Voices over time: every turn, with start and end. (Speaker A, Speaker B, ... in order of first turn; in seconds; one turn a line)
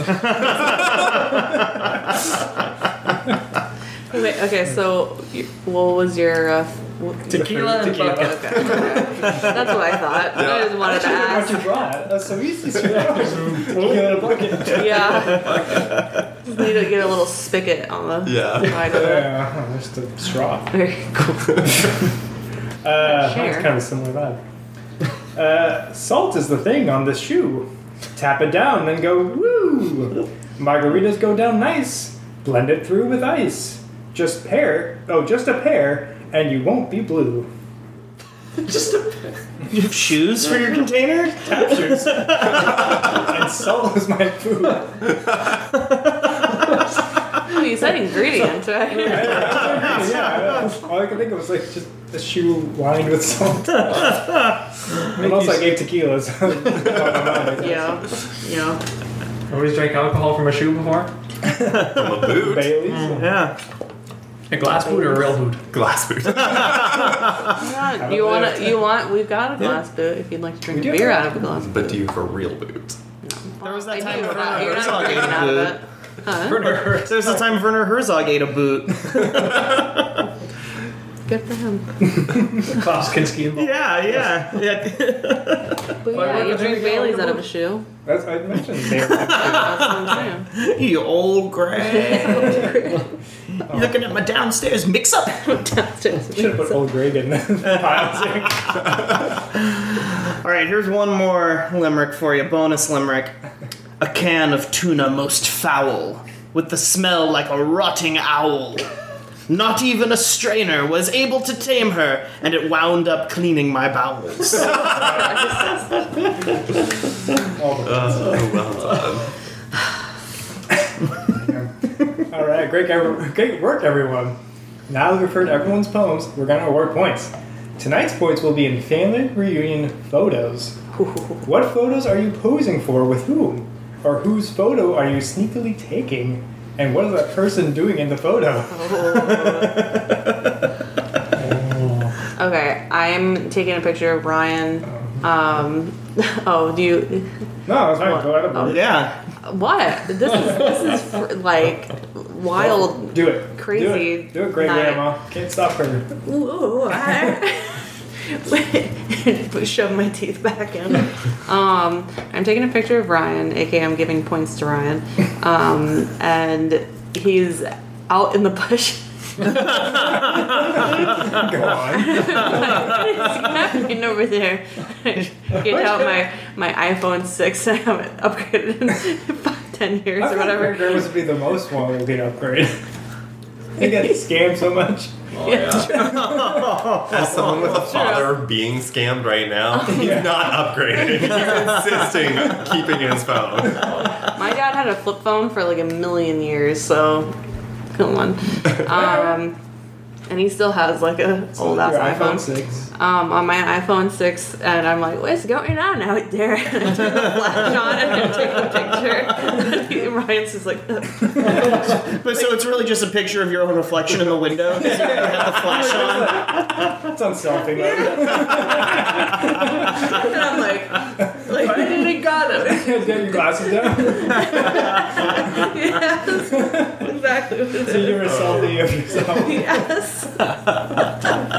Speaker A: 0.1-1.3
Speaker B: 4.1-11.7
Speaker C: 7.3-8.8
Speaker D: 7.3-9.7
Speaker E: 10.3-11.1
Speaker D: 10.7-15.6
Speaker C: 12.8-14.8
Speaker B: 14.7-15.9
Speaker B: 16.4-19.4
Speaker E: 18.2-19.1
Speaker D: 18.8-20.8
Speaker B: 20.7-21.9
Speaker D: 22.8-24.4
Speaker B: 23.0-23.7
Speaker D: 25.4-37.5
Speaker C: 38.6-39.3
Speaker A: 39.7-42.9
Speaker D: 41.5-45.2
Speaker B: 47.5-49.9
Speaker D: 48.9-54.2
Speaker A: 50.0-50.5
Speaker A: 53.9-54.6
Speaker D: 55.1-58.0
Speaker C: 55.2-55.7
Speaker B: 57.5-58.8
Speaker C: 59.5-61.1
Speaker D: 61.7-63.2
Speaker A: 61.7-62.0
Speaker E: 61.9-62.9
Speaker C: 62.9-63.4
Speaker A: 63.1-63.5
Speaker C: 64.5-65.6
Speaker E: 65.7-67.2
Speaker A: 66.4-67.3
Speaker B: 67.5-72.0
Speaker D: 68.0-68.8
Speaker D: 70.7-71.4
Speaker E: 71.6-73.0
Speaker B: 73.2-76.8
Speaker A: 73.6-75.8
Speaker C: 76.3-77.4
Speaker A: 76.9-80.1
Speaker B: 81.3-82.3
Speaker C: 82.6-84.3
Speaker A: 83.5-85.9
Speaker B: 86.0-87.9
Speaker C: 86.1-87.4
Speaker D: 86.2-86.8
Speaker D: 88.0-90.1
Speaker A: 89.0-90.0
Speaker B: 89.2-90.5
Speaker A: 90.5-92.9
Speaker B: 91.8-93.1
Speaker A: 93.7-95.5
Speaker B: 95.4-96.8
Speaker D: 96.3-99.2
Speaker A: 97.7-98.1
Speaker A: 99.7-103.3
Speaker A: 104.0-108.9
Speaker A: 109.5-115.3
Speaker B: 114.6-116.1
Speaker D: 114.8-115.4
Speaker D: 117.5-118.4
Speaker E: 117.8-119.3
Speaker D: 121.2-130.8
Speaker B: 130.9-131.4
Speaker D: 131.4-139.9
Speaker B: 138.7-139.8
Speaker A: 139.1-140.6
Speaker C: 141.4-142.1
Speaker B: 142.4-147.3
Speaker D: 147.7-148.9
Speaker B: 148.0-155.1
Speaker A: 148.7-149.2
Speaker D: 152.5-156.2
Speaker B: 156.2-169.8
Speaker A: 169.5-170.7
Speaker D: 169.9-172.9
Speaker B: 171.9-181.1
Speaker D: 180.2-182.8
Speaker D: 183.8-185.2
Speaker C: 185.3-186.1
Speaker B: 185.4-186.5
Speaker D: 185.8-186.8
Speaker A: 185.9-187.8
Speaker E: 187.1-194.1
Speaker B: 187.7-188.4
Speaker B: 189.8-190.2
Speaker D: 189.9-190.3
Speaker B: 194.3-197.3
Speaker B: 197.9-199.6
Speaker B: 200.3-212.5
Speaker D: 201.6-202.9
Speaker A: 212.0-216.9
Speaker D: 214.7-220.3
Speaker B: 217.8-219.0
Speaker B: 219.7-228.4
Speaker D: 221.5-222.0
Speaker C: 221.5-222.8
Speaker D: 222.6-225.8
Speaker D: 226.5-227.1
Speaker D: 227.8-229.9
Speaker E: 228.3-228.8
Speaker B: 229.2-230.5